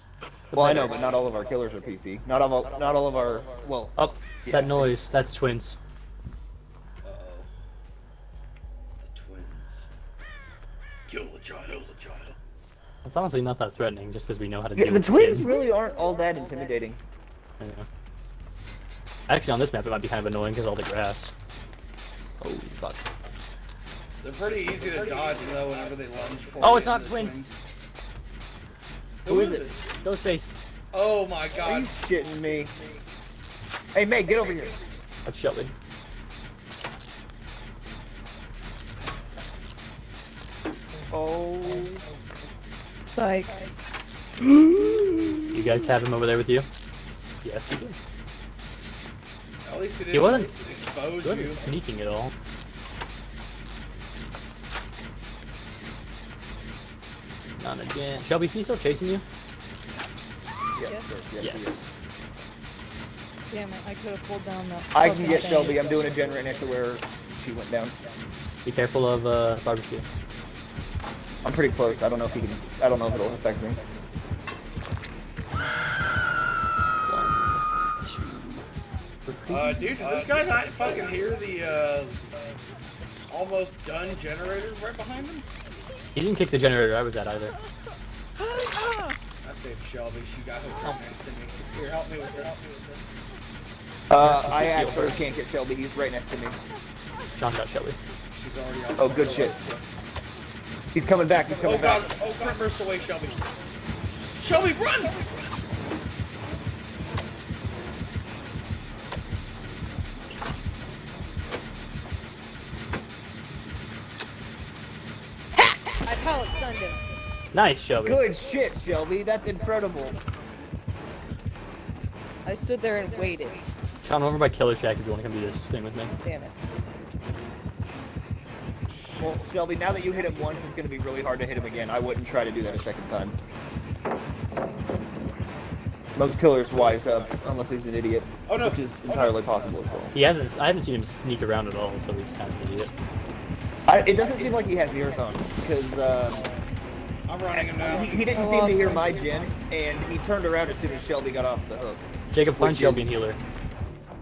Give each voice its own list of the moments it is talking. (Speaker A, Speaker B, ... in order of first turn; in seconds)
Speaker A: 0.5-1.0, 4.0-5.8, 13.0-15.5, 17.6-17.9, 19.3-21.3, 22.4-23.0, 26.6-27.5, 30.0-30.6, 35.2-35.7, 45.5-46.7, 47.4-48.0, 50.1-50.5, 51.2-52.3, 57.6-59.2, 61.4-61.9, 65.1-65.8, 68.6-70.1, 77.0-78.7, 79.3-79.9, 86.1-87.6, 94.2-95.3, 97.4-98.0, 117.5-118.2, 124.0-126.1, 140.1-142.9, 152.3-153.4
Speaker B: 0.5-5.0, 14.8-17.0, 29.3-29.7, 31.6-32.7, 33.9-34.8, 41.1-42.0, 60.8-61.8, 64.9-67.9, 71.4-73.8, 94.1-96.6, 99.0-99.6, 100.9-102.2, 118.0-120.2, 129.2-133.3, 136.2-140.2, 143.9-146.4, 147.5-152.0, 152.6-153.2
Speaker C: 7.0-7.5, 9.0-9.9, 11.1-12.4, 24.2-27.5, 29.2-30.1, 30.9-32.0, 49.6-51.6, 79.5-82.3, 83.3-85.5, 89.4-92.9, 98.3-99.8, 101.6-103.5, 104.1-105.4, 129.1-129.4, 138.5-140.2, 147.2-148.5
Speaker D: 43.1-43.6, 63.5-65.8, 116.0-117.0, 122.5-123.6, 126.2-126.5, 148.3-149.3